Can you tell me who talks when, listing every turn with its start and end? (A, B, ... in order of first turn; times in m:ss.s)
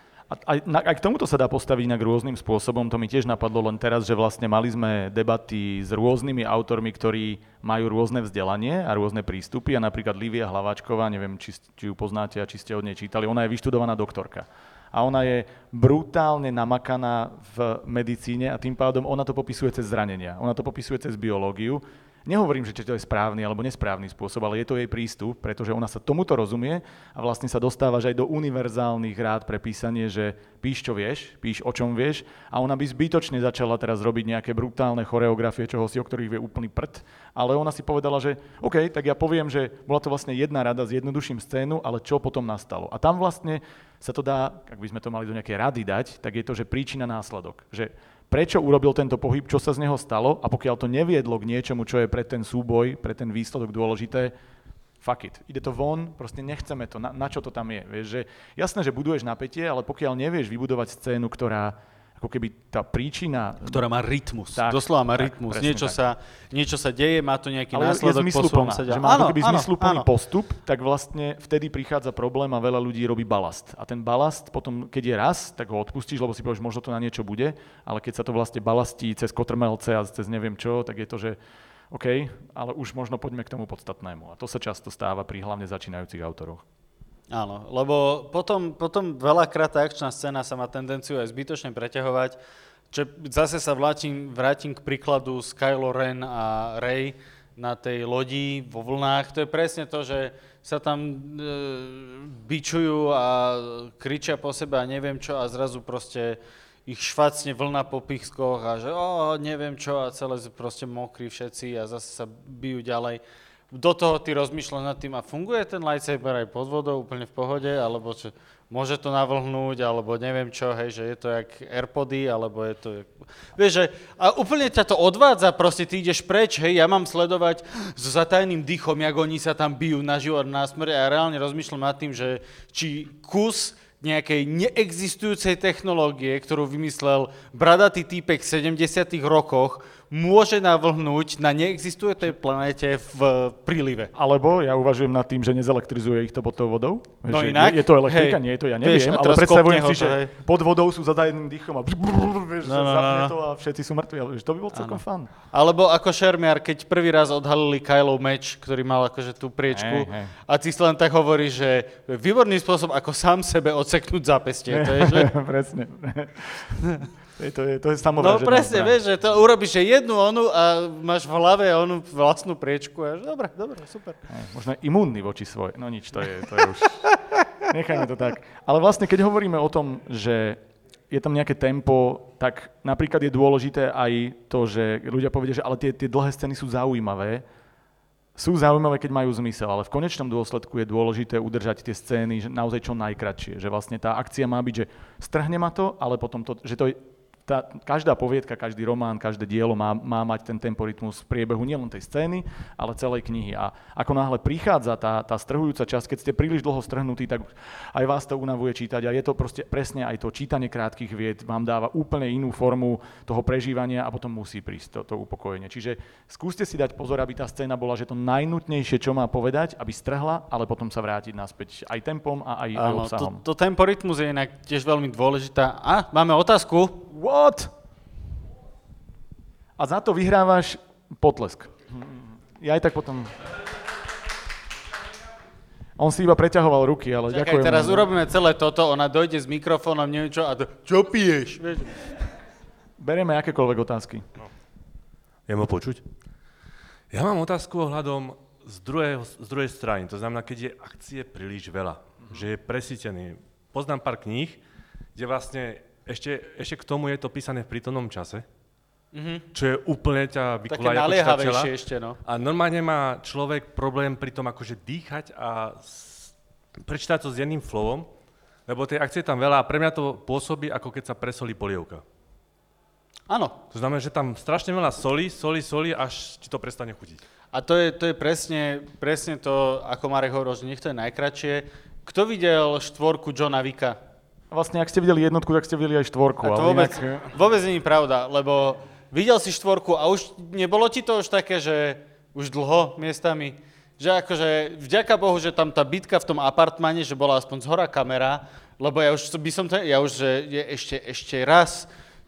0:00.3-0:54.3 A
0:55.0-1:03.8 A
1:03.7-1:10.0 B
1:04.5-1:06.0 A
1:07.7-1:21.4 A
1:21.9-1:26.6 A
1:27.3-1:32.4 B
1:32.9-2:24.1 B
2:24.1-2:35.3 A
2:27.3-2:30.3 B
2:32.6-2:33.3 B
2:34.7-2:45.3 B
2:39.7-2:40.3 A
2:44.7-2:46.8 A
2:47.4-2:49.0 A
2:48.2-2:54.2 B
2:54.3-2:57.1 A
2:57.6-3:07.4 A
3:08.4-3:43.4 A
3:42.8-3:47.1 B
3:47.1-3:47.7 A
3:49.8-3:53.3 A
3:56.0-3:58.1 A
3:57.3-4:02.1 B
4:03.0-4:04.2 A
4:05.5-4:06.0 C
4:07.1-4:14.6 C
4:15.1-4:18.4 C
4:19.1-4:19.4 B
4:19.5-4:21.7 C
4:20.7-4:22.2 B
4:22.2-4:28.1 C
4:28.7-4:32.0 C
4:33.3-4:33.6 B
4:33.7-4:37.2 C
4:37.5-4:44.0 B
4:44.5-4:47.3 A
4:46.4-5:01.9 B